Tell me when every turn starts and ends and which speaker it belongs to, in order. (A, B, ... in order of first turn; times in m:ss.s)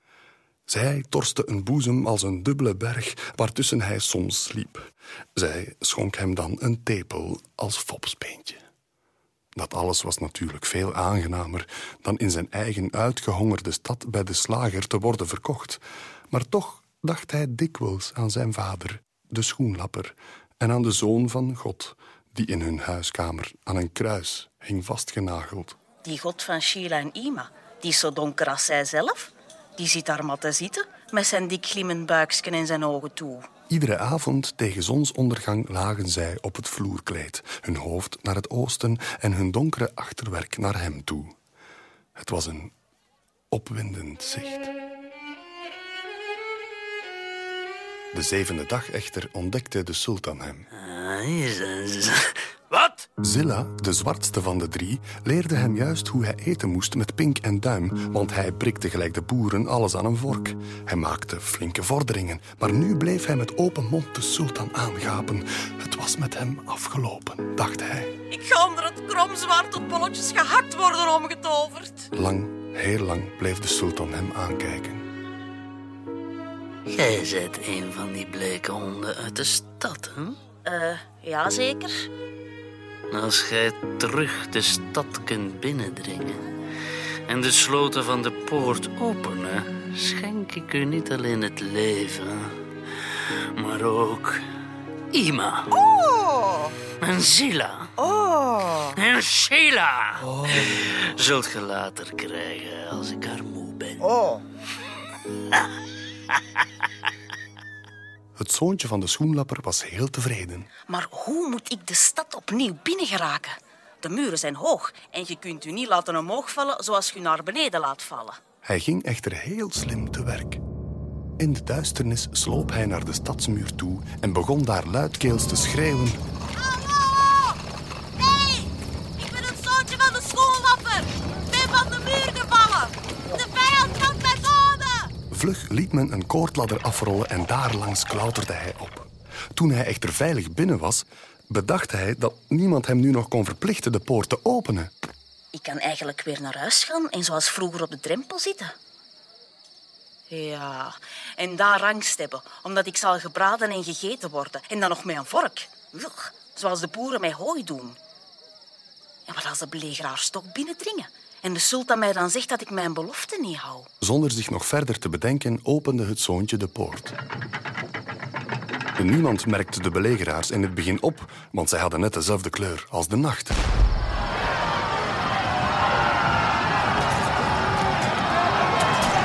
0:00.7-0:08.6 A
0:09.6-0:25.8 A
0:26.0-0:33.5 B
0:33.7-0:41.4 A
0:42.2-0:42.7 A
0:43.5-0:44.7 A
0:48.1-0:50.7 A
0:50.7-0:53.1 C
0:53.2-1:08.1 A
1:08.3-1:12.1 B
1:12.1-1:15.1 A
1:16.9-1:20.4 C
1:20.6-1:22.1 B
1:23.1-1:26.5 C
1:27.3-1:32.6 C
1:33.1-1:34.5 C
1:35.1-1:35.8 C
1:35.7-1:36.7 D
1:37.0-1:38.0 C
1:38.0-1:38.8 D
1:38.7-1:44.1 C
1:44.0-1:44.4 D
1:48.4-1:50.7 A
1:50.9-1:58.4 B
1:58.6-2:00.6 A
2:01.4-2:06.2 A
2:06.6-2:07.5 B
2:08.2-2:15.1 B
2:15.3-2:24.9 A
2:25.5-2:28.7 B
2:30.3-2:38.0 B
2:39.2-2:43.9 B
2:44.0-2:47.2 A
2:49.0-2:53.6 A